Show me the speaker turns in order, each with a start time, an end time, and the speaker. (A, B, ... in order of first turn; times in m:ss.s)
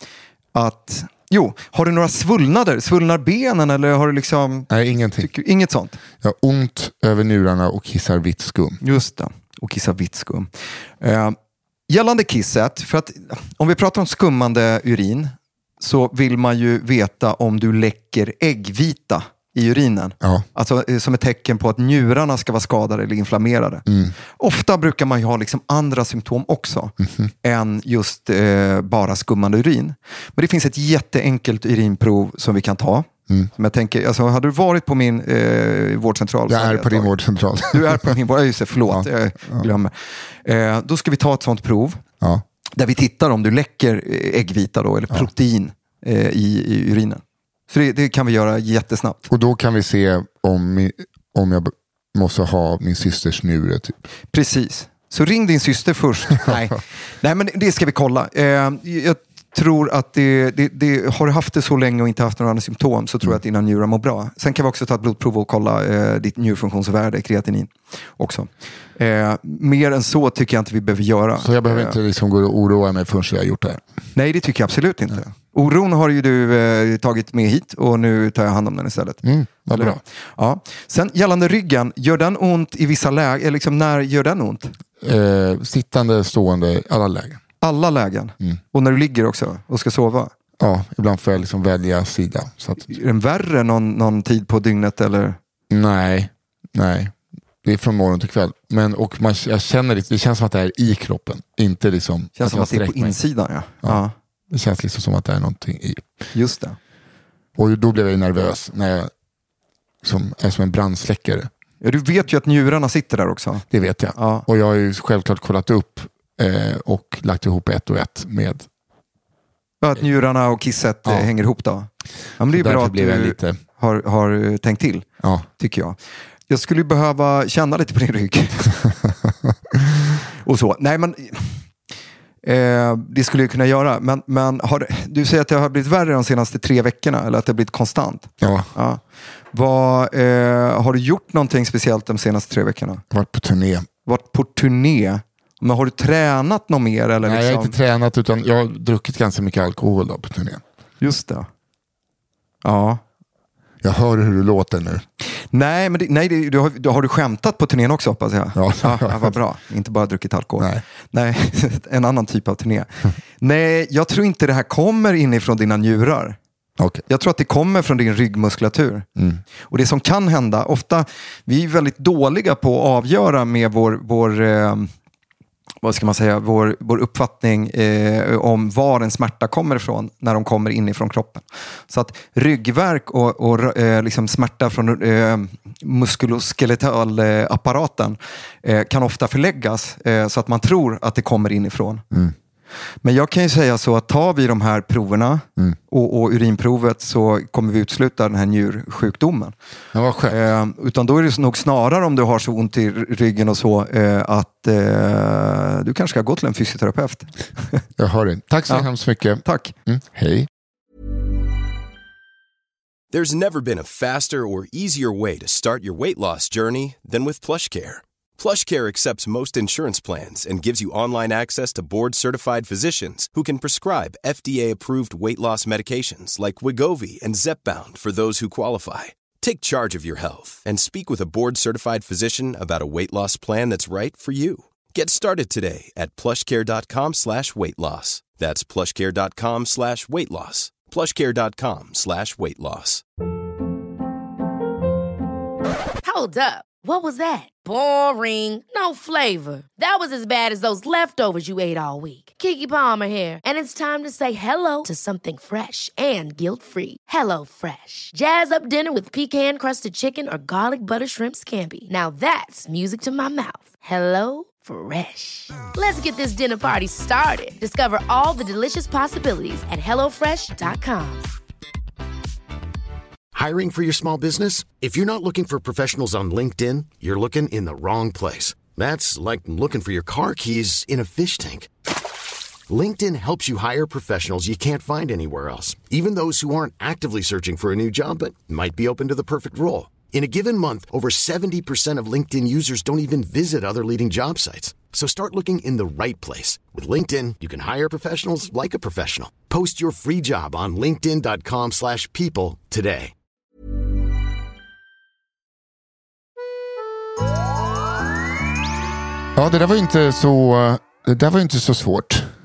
0:00.5-0:06.0 A
0:04.7-0:05.3 B
0:06.2-0:08.8 B
0:08.8-0:10.5 A
0:11.0-0:11.4 A
0:11.9-0:23.8 A
0:23.9-0:24.1 B
0:24.4-0:37.1 A
0:36.5-0:38.1 B
0:37.7-0:39.9 A
0:38.9-0:39.7 B
0:40.4-0:42.0 A
0:42.8-0:49.2 A
0:49.3-0:54.0 B
0:54.3-1:12.0 A
1:11.4-1:13.8 B
1:14.2-1:24.7 A
1:19.2-1:20.0 B
1:25.0-1:27.4 B
1:27.6-1:30.3 A
1:30.6-1:33.0 B
1:32.9-1:35.4 A
1:35.7-1:43.2 B
1:42.4-1:44.1 A
1:43.8-1:46.1 B
1:46.3-1:46.8 A
1:47.6-1:49.1 B
1:50.0-1:51.5 B
1:51.8-1:54.5 A
1:53.7-1:58.7 B
1:59.8-2:05.1 A
2:02.5-2:03.6 B
2:05.2-2:05.5 B
2:05.6-2:06.0 A
2:06.5-2:08.8 A
2:10.4-2:11.5 A
2:12.4-2:19.0 A
2:18.4-2:18.7 B
2:19.5-2:23.0 A
2:23.1-2:23.9 B
2:24.1-2:27.8 A
2:27.2-2:30.6 B
2:31.0-2:31.5 A
2:32.6-2:33.0 A
2:33.8-2:35.0 B
2:35.3-2:46.4 A
2:38.6-2:39.3 B
2:46.8-2:47.0 B
2:47.1-2:49.1 A
2:49.2-2:49.4 B
2:49.7-2:54.9 A
2:55.8-3:12.0 A
3:13.0-3:19.6 A
3:19.9-3:20.4 B
3:20.3-3:27.8 A
3:28.0-3:30.5 B
3:29.4-3:29.7 A
3:33.1-4:03.0 C
4:06.0-4:31.3 D
4:33.3-4:41.7 E
4:42.7-5:03.1 E
5:09.4-5:12.3 B